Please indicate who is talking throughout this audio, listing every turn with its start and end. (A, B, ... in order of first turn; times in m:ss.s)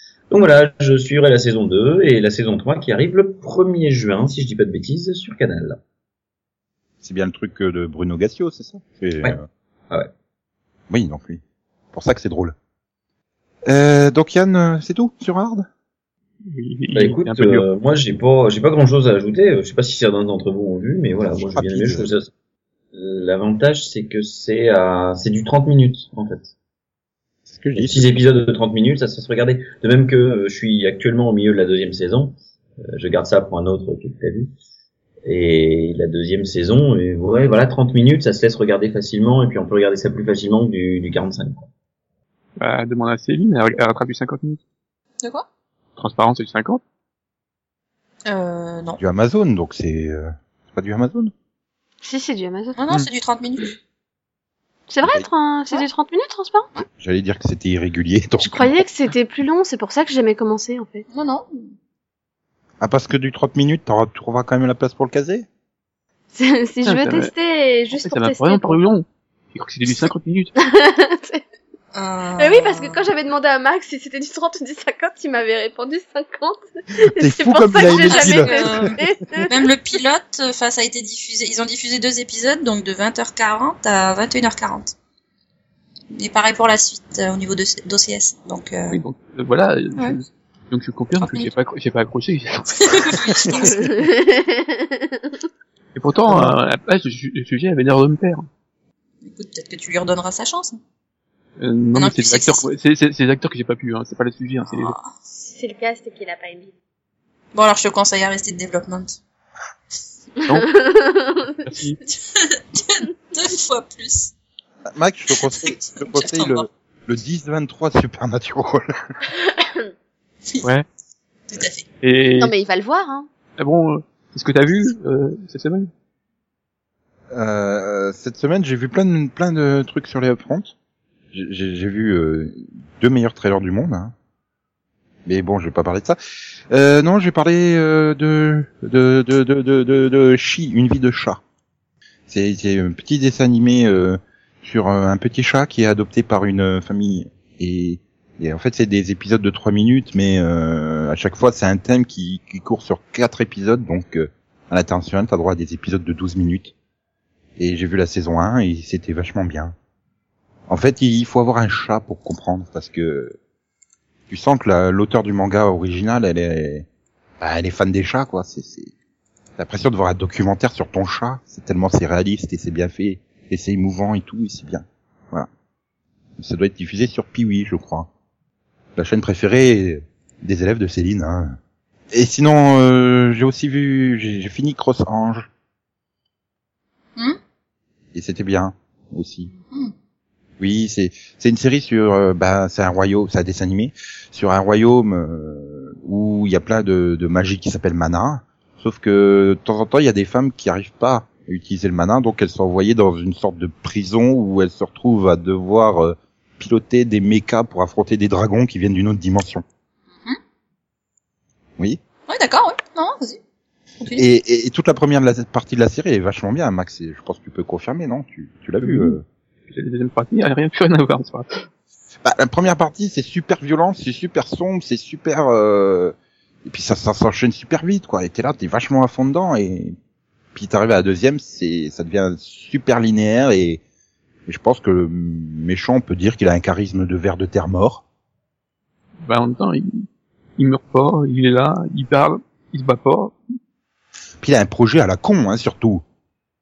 0:00.3-0:05.8 A
0:07.0-0:09.5 B
0:10.9-0:11.4 B
0:11.9-0:12.6 B
0:13.7-0:15.7 B
0:16.5-0:17.7 C
0:16.9-0:22.3 A
0:21.5-0:22.1 B
0:22.9-0:26.5 A
0:27.5-0:28.1 B
0:27.8-0:34.5 A
0:35.3-0:41.7 A
0:42.6-0:44.6 C
0:46.0-0:46.8 C
0:48.3-0:49.0 D
0:49.0-0:51.3 B
0:52.0-0:52.8 E
0:52.8-0:53.7 D
0:54.9-0:56.7 E
0:57.0-0:58.9 B
0:58.4-1:01.0 E
1:01.1-1:01.7 D
1:02.8-1:05.5 B
1:06.3-1:08.8 E
1:06.8-1:07.3 C
1:07.9-1:10.6 C
1:10.6-1:11.4 E
1:11.9-1:13.0 D
1:12.4-1:19.5 E
1:17.0-1:18.9 B
1:17.9-1:24.9 D
1:26.1-1:29.0 D
1:28.9-1:34.0 C
1:31.2-1:31.5 D
1:32.8-1:33.9 D
1:33.7-1:35.3 E
1:36.0-1:38.5 C
1:39.2-1:40.8 D
1:41.6-1:45.0 C
1:42.0-1:42.7 D
1:44.7-1:45.1 D
1:45.5-1:46.7 E
1:47.5-1:49.2 D
1:50.5-1:51.6 E
1:51.6-1:52.0 C
1:52.3-1:54.3 D
1:54.9-1:58.9 B
1:55.4-1:56.7 D
2:01.5-2:01.9 D
2:02.0-2:02.5 C
2:02.4-2:03.3 E
2:03.6-2:05.9 C
2:07.3-2:10.7 B
2:11.3-2:14.1 B
2:15.3-2:16.2 B
2:16.7-2:21.4 B
2:22.3-2:36.7 B
2:37.6-2:39.8 B
2:40.7-2:43.4 B
2:44.3-2:46.9 B
2:47.4-2:48.9 B
2:49.6-2:55.5 B
2:56.4-2:58.1 B
2:59.0-3:01.6 B
3:02.1-3:05.5 B
3:08.1-3:09.5 B
3:10.6-3:29.6 B
3:32.3-3:33.4 D
3:34.2-3:39.2 B
3:38.8-3:39.2 C
3:39.7-3:41.7 C
3:42.2-3:50.0 B
3:50.6-3:53.8 B
3:54.5-3:58.0 B
3:59.2-4:03.4 C
4:04.4-4:06.0 B